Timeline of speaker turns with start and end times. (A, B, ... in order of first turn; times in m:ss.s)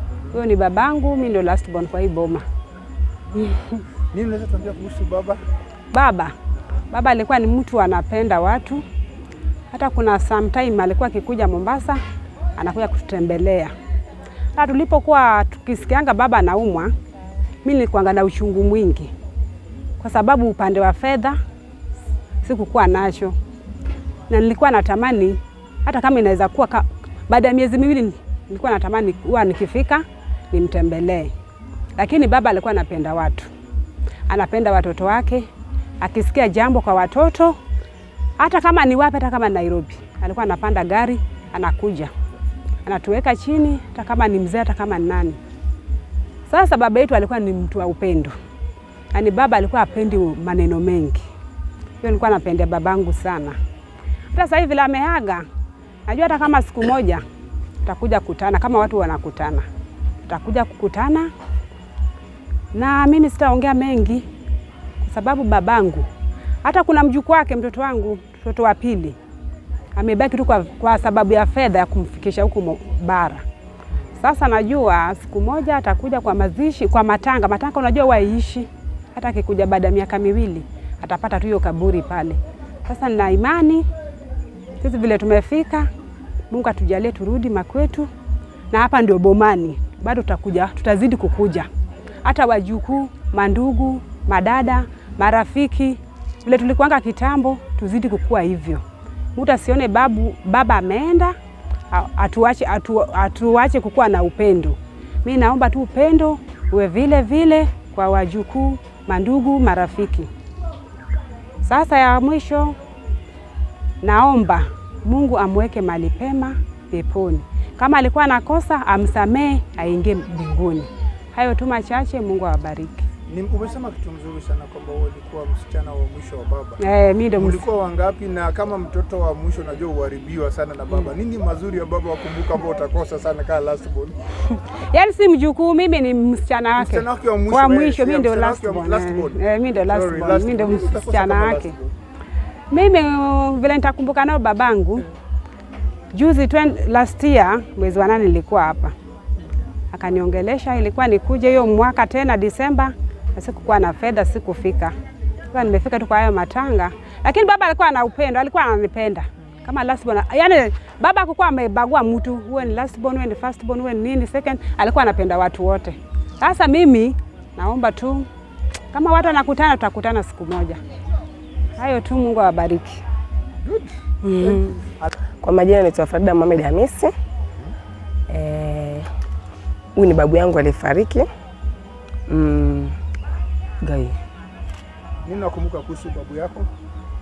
0:00.3-0:02.4 A
0:04.1-0:05.4 B
0:05.9-0:06.3 A
0:06.9-0:08.8 A
0:09.7-0:12.0 A
0:12.6-0:13.7 A
0:14.5-0:16.9 A
0:17.6-0:19.1 A
0:20.0-0:21.4 A
0:22.4-0:23.4 A
0:24.3-0:31.3 A
0:32.0-0:33.5 A
0:34.3-0:35.5 A
0:36.0-0:37.6 A
0:38.4-0:42.1 A
0:42.8-0:45.4 A
0:46.5-0:48.3 A
0:49.1-0:51.2 A
0:52.0-0:53.6 A
0:54.3-0:55.4 A
0:56.0-0:57.2 A
0:57.8-0:59.6 A
1:00.2-1:01.3 A
1:02.7-1:04.2 A
1:05.0-1:06.1 A
1:06.6-1:09.2 A
1:09.9-1:13.4 A
1:14.2-1:23.8 A
1:24.8-1:25.9 A
1:26.5-1:28.1 A
1:28.7-1:31.7 A
1:32.2-1:38.8 A
1:39.4-1:41.3 A
1:41.9-1:50.3 A
1:51.6-1:52.7 A
1:54.0-2:03.0 A
2:03.3-2:06.8 B
2:06.8-2:07.6 A
2:07.4-2:14.2 B
2:14.9-2:21.7 A
2:16.8-2:19.3 B
2:19.9-2:21.9 B
2:22.7-2:25.0 A
2:26.1-2:28.9 A
2:29.9-2:34.9 A
2:35.5-2:48.3 A
2:48.9-2:50.8 A
2:51.8-2:53.0 A
2:53.6-2:55.1 B
2:55.4-2:57.1 C
2:58.3-2:59.1 C
3:00.0-3:01.3 C
3:02.3-3:03.0 C
3:03.8-3:04.1 C
3:05.2-3:06.7 B